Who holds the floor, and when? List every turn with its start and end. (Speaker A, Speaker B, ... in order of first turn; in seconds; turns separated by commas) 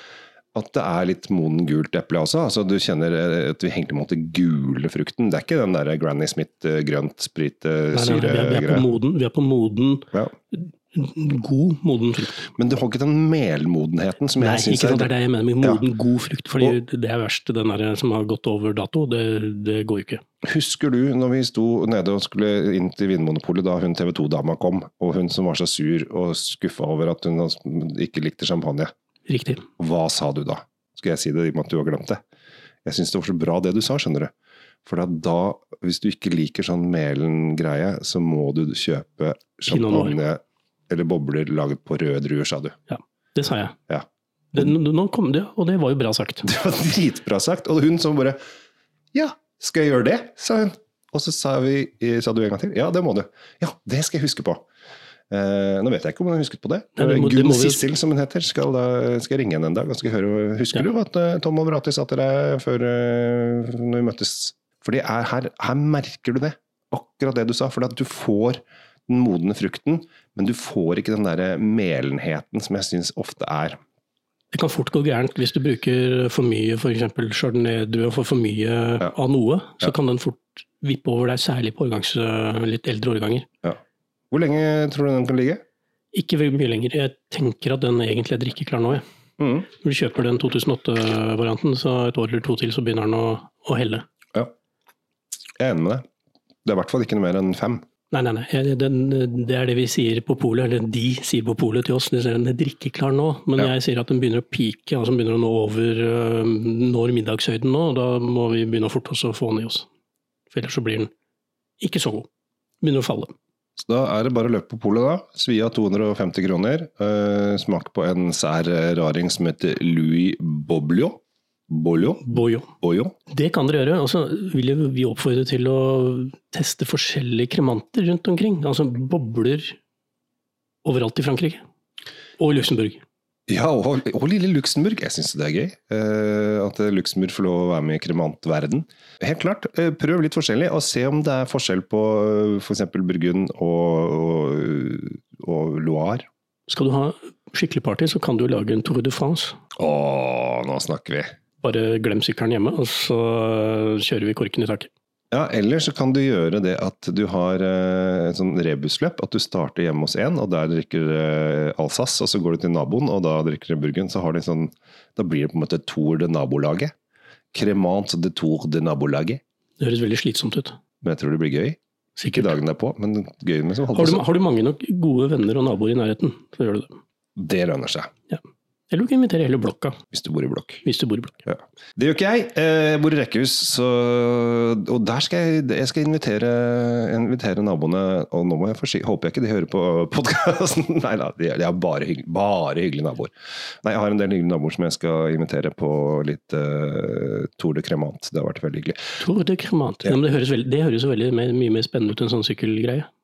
Speaker A: 0.5-8.9, Speaker B: 7.9-12.5, Speaker A: 12.5-15.1, Speaker B: 14.4-20.2, Speaker A: 20.4-28.9, Speaker B: 29.3-29.6, Speaker A: 29.8-32.2, Speaker A: 32.9-34.3, Speaker A: 34.8-42.7, Speaker B: 39.7-40.1, Speaker B: 42.9-43.8, Speaker B: 44.5-46.5, Speaker A: 46.4-48.4, Speaker A: 49.1-54.6, Speaker A: 55.3-73.8, Speaker B: 57.0-57.8, Speaker B: 74.5-83.5, Speaker A: 84.3-85.6, Speaker B: 86.1-89.0, Speaker A: 89.4-89.7, Speaker B: 89.7-94.0, Speaker A: 95.6-96.0, Speaker A: 96.6-97.8, Speaker B: 98.1-109.8, Speaker B: 110.5-111.1, Speaker B: 111.8-112.3, Speaker B: 112.8-113.3, Speaker A: 113.8-121.2, Speaker A: 121.7-122.2, Speaker B: 122.2-122.7, Speaker A: 122.8-123.1, Speaker B: 123.3-129.8, Speaker B: 130.8-131.6, Speaker B: 132.4-133.0, Speaker A: 133.5-146.2, Speaker B: 146.7-149.6, Speaker A: 149.8-151.3, Speaker B: 151.6-154.9, Speaker A: 155.3-166.9, Speaker A: 167.5-169.4, Speaker B: 169.8-170.7, Speaker A: 171.0-174.2, Speaker B: 172.2-172.6, Speaker B: 173.9-176.9, Speaker A: 177.4-178.1, Speaker B: 178.3-180.0, Speaker A: 180.1-180.8, Speaker B: 180.8-181.4, Speaker A: 181.4-193.3, Speaker A: 193.8-199.0, Speaker B: 199.2-203.1